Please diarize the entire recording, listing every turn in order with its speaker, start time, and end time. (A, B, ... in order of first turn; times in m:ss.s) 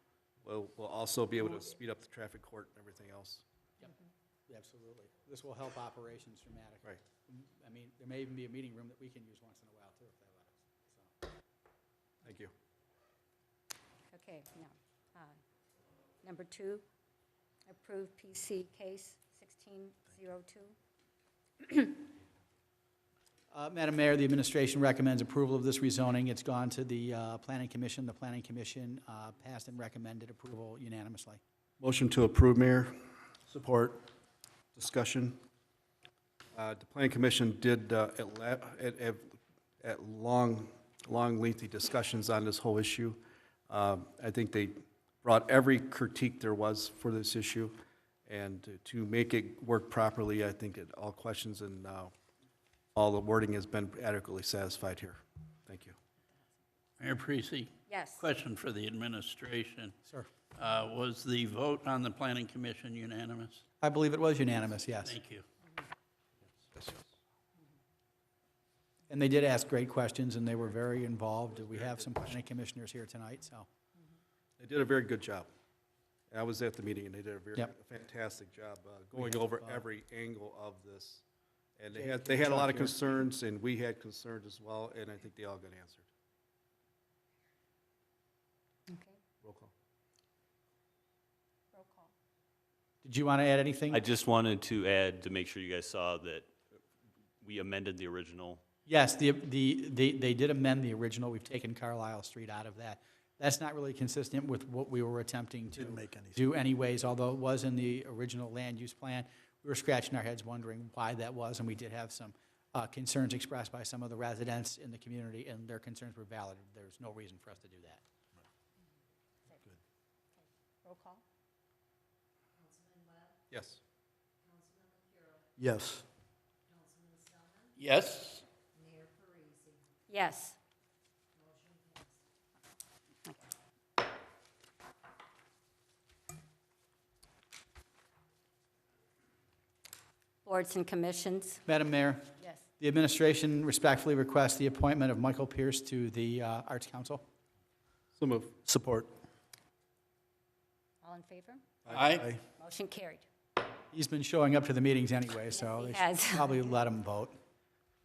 0:00.4-0:03.4 A
0:04.5-0:11.1 B
0:12.2-0:12.5 A
0:14.1-0:15.4 C
0:16.2-0:16.8 C
0:17.7-0:20.8 C
0:21.7-0:21.9 C
0:23.5-0:31.4 B
0:31.8-0:34.1 A
0:34.8-0:35.4 A
0:36.6-0:52.1 A
0:53.0-0:56.0 A
0:57.0-1:00.0 D
0:57.9-0:58.2 C
1:00.6-1:03.6 D
1:03.8-1:05.2 B
1:05.0-1:05.5 D
1:06.7-1:07.0 A
1:09.1-1:13.7 B
1:11.6-1:12.1 A
1:14.6-1:15.5 A
1:16.3-1:21.2 A
1:19.2-1:19.8 B
1:21.8-1:26.1 A
1:21.9-1:23.3 B
1:28.9-1:29.2 C
1:29.4-1:29.7 A
1:31.7-1:32.1 C
1:33.0-1:34.0 B
1:33.9-1:36.5 E
1:37.4-1:38.6 E
1:38.9-1:58.0 B
1:45.8-1:46.4 F
2:00.3-2:01.2 C
2:03.5-2:03.8 A
2:05.6-2:06.0 F
2:07.8-2:08.5 D
2:10.1-2:10.6 C
2:20.4-2:21.6 C
2:21.7-2:27.2 B
2:28.2-2:28.6 A
2:28.6-2:29.1 F
2:31.0-2:31.6 C
2:31.9-2:32.4 D
2:32.0-2:32.4 F
2:32.6-2:33.3 C
2:33.9-2:37.4 B
2:35.6-2:36.5 C